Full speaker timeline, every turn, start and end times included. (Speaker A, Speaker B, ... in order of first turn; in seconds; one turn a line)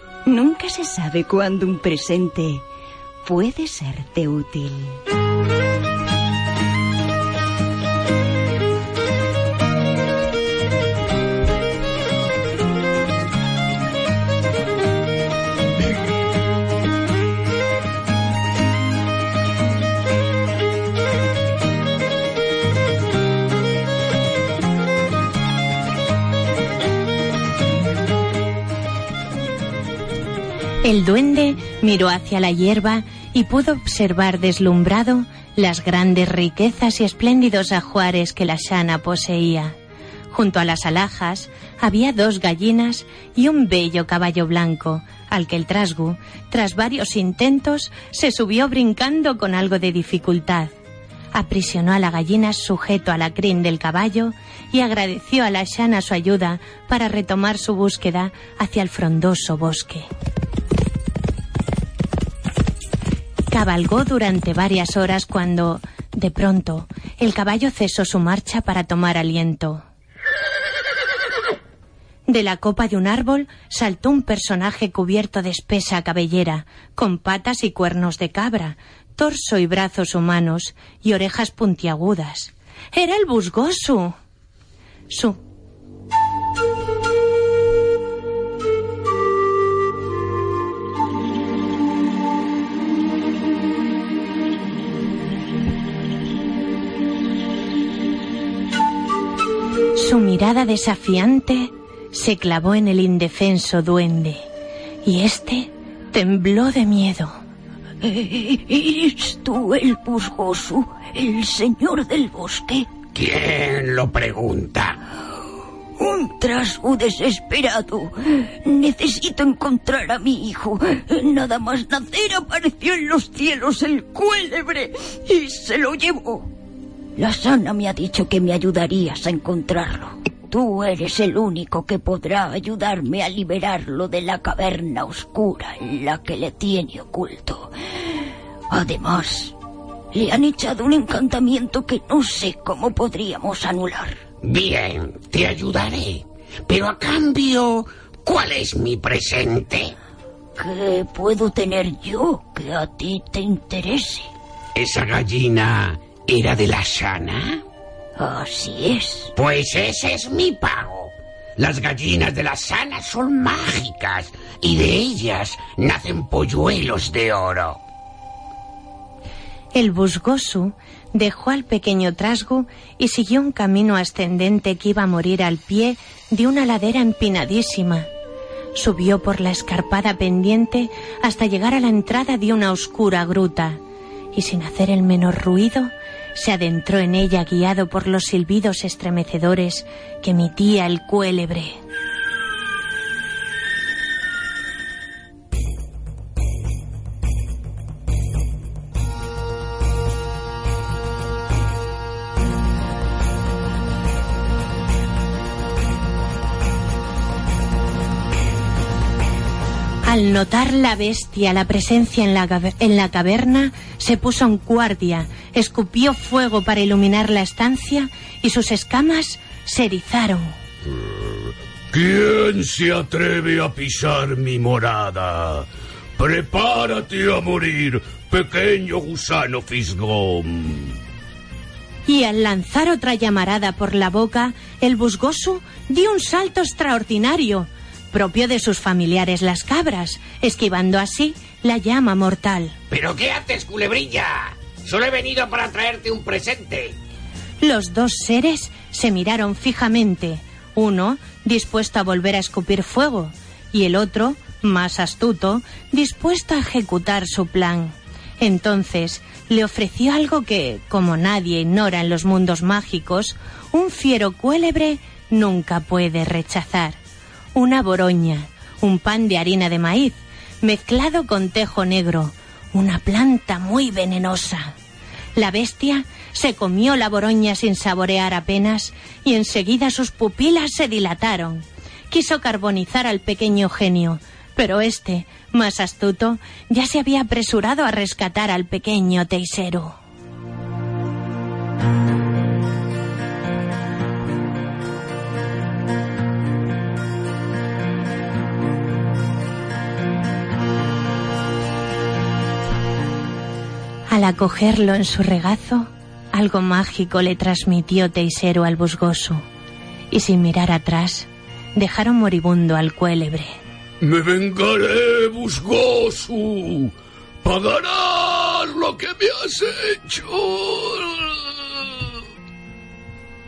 Speaker A: 0.2-2.6
Speaker A: 3.2-5.0
Speaker B: 30.8-39.8
Speaker B: 40.3-50.7
Speaker B: 51.3-60.1
Speaker B: 63.5-69.8
Speaker B: 72.3-84.2
Speaker B: 85.1-85.4
Speaker B: 99.9-104.4
Speaker B: 105.0-107.4
Speaker C: 108.0-112.9
Speaker D: 113.1-115.0
Speaker C: 116.0-126.5
Speaker C: 127.2-137.7
Speaker C: 138.7-139.5
Speaker C: 140.1-144.2
Speaker D: 144.4-149.9
Speaker C: 150.6-154.3
Speaker D: 154.8-157.6
Speaker C: 158.2-159.3
Speaker D: 159.3-167.8
Speaker B: 169.7-178.1
Speaker B: 178.7-183.8
Speaker B: 184.3-191.8
Speaker B: 210.0-220.6
Speaker E: 221.9-230.9
Speaker B: 232.1-242.8
Speaker D: 242.9-246.9
Speaker B: 247.6-267.0
Speaker B: 267.5-274.7
Speaker B: 275.4-290.0
Speaker B: 304.1-309.4
Speaker B: 310.1-313.5
Speaker E: 314.0-316.9
Speaker E: 317.4-321.2